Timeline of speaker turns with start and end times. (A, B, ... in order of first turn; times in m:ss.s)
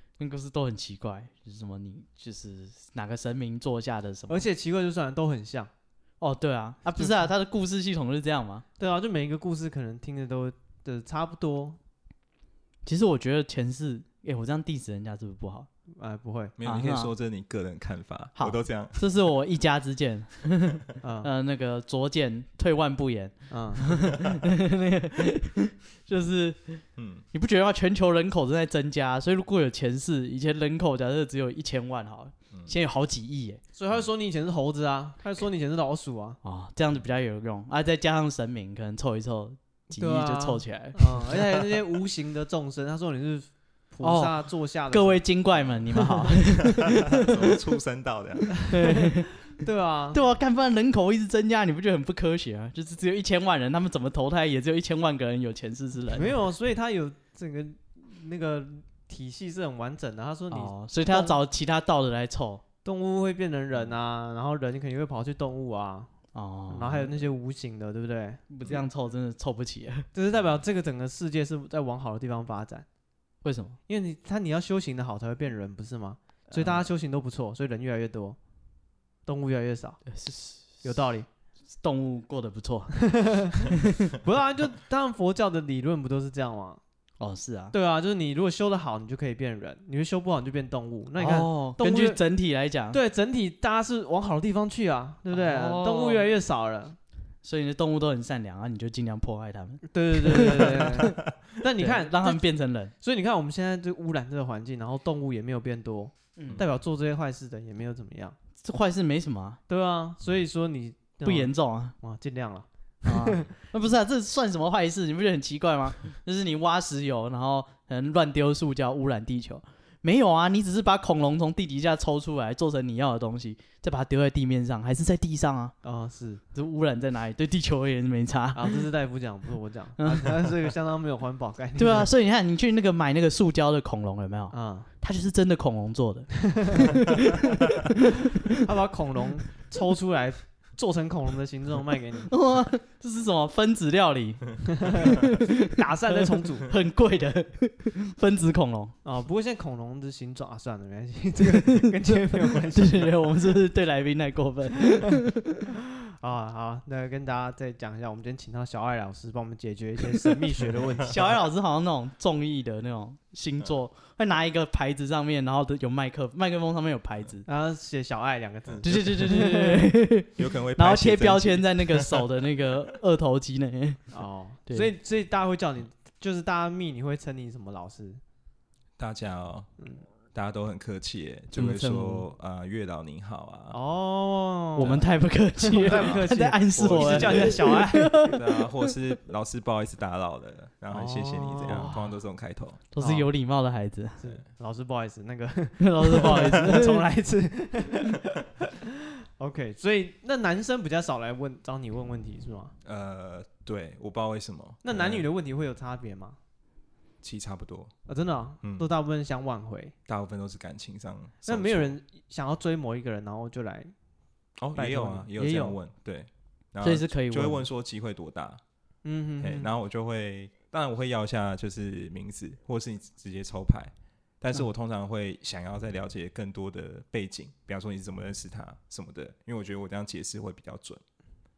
0:00.2-0:04.4 A
0:04.3-0:05.7 B
0:06.2-0:08.6 A
0:08.8-0:11.8 B
0:12.8-0:15.7 A
0:16.0-0:16.5 B
0:16.6-0:19.0 C
0:16.6-0:17.1 A
0:18.4-0:33.6 A
0:21.0-0:21.3 B
0:23.5-0:23.8 B
0:27.0-0:27.2 C
0:33.8-0:36.4 B
0:36.4-0:41.4 A
0:39.9-0:45.2 B
0:44.0-0:47.6 A
0:47.2-0:48.6 C
0:48.6-0:50.2 B
0:48.7-0:49.5 A
0:50.1-0:56.3 A
0:56.1-1:01.4 B
1:00.5-1:02.6 A
1:02.8-1:06.1 B
1:06.3-1:07.2 A
1:06.7-1:08.5 B
1:08.5-1:10.1 A
1:10.1-1:12.8 B
1:13.4-1:13.8 A
1:13.9-1:18.4 B
1:19.2-1:20.1 B
1:20.1-1:20.9 A
1:20.8-1:21.3 B
1:21.8-1:24.0 A
1:23.0-1:26.8 B
1:27.2-1:27.7 A
1:27.7-1:32.2 B
1:31.2-1:33.0 A
1:32.9-1:37.0 B
1:35.3-1:36.3 A
1:37.4-1:41.2 A
1:39.9-1:42.4 B
1:41.8-1:42.9 A
1:43.0-1:48.4 B
1:48.6-1:49.6 A
1:49.7-1:53.5 B
1:51.2-1:52.0 A
1:53.0-2:05.8 A
2:05.8-2:06.4 B
2:06.5-2:08.9 A
2:08.5-2:12.1 B
2:10.0-2:10.5 A
2:11.8-2:17.9 A
2:14.5-2:14.9 B
2:16.5-2:17.0 B
2:18.6-2:22.3 B
2:22.3-2:28.9 A
2:24.7-2:26.7 B
2:29.0-2:33.3 B
2:31.5-2:31.9 A
2:32.7-2:35.6 A
2:36.0-2:41.2 B
2:41.0-2:47.4 A
2:47.4-2:49.9 B
2:48.7-2:49.0 C
2:48.8-2:54.9 A
2:50.4-2:52.3 C
2:54.1-2:58.2 B
2:59.0-2:59.7 C
3:00.3-3:03.8 C
3:01.5-3:02.2 A
3:03.7-3:08.3 B
3:04.8-3:08.6 A
3:04.8-3:05.0 C
3:05.8-3:07.6 C
3:08.2-3:12.8 C
3:10.9-3:12.0 B
3:11.7-3:12.0 A
3:12.9-3:14.2 A
3:13.0-3:13.3 B
3:14.2-3:22.7 B
3:15.8-3:17.0 A
3:22.8-3:25.2 C
3:24.8-3:26.4 B
3:27.2-3:27.9 C
3:28.1-3:29.9 B
3:28.6-3:28.9 C
3:30.1-3:32.0 C
3:31.4-3:33.9 B
3:34.6-3:38.6 C
3:34.7-3:35.8 B
3:36.8-3:37.6 A
3:39.0-3:39.7 B
3:39.4-3:51.0 C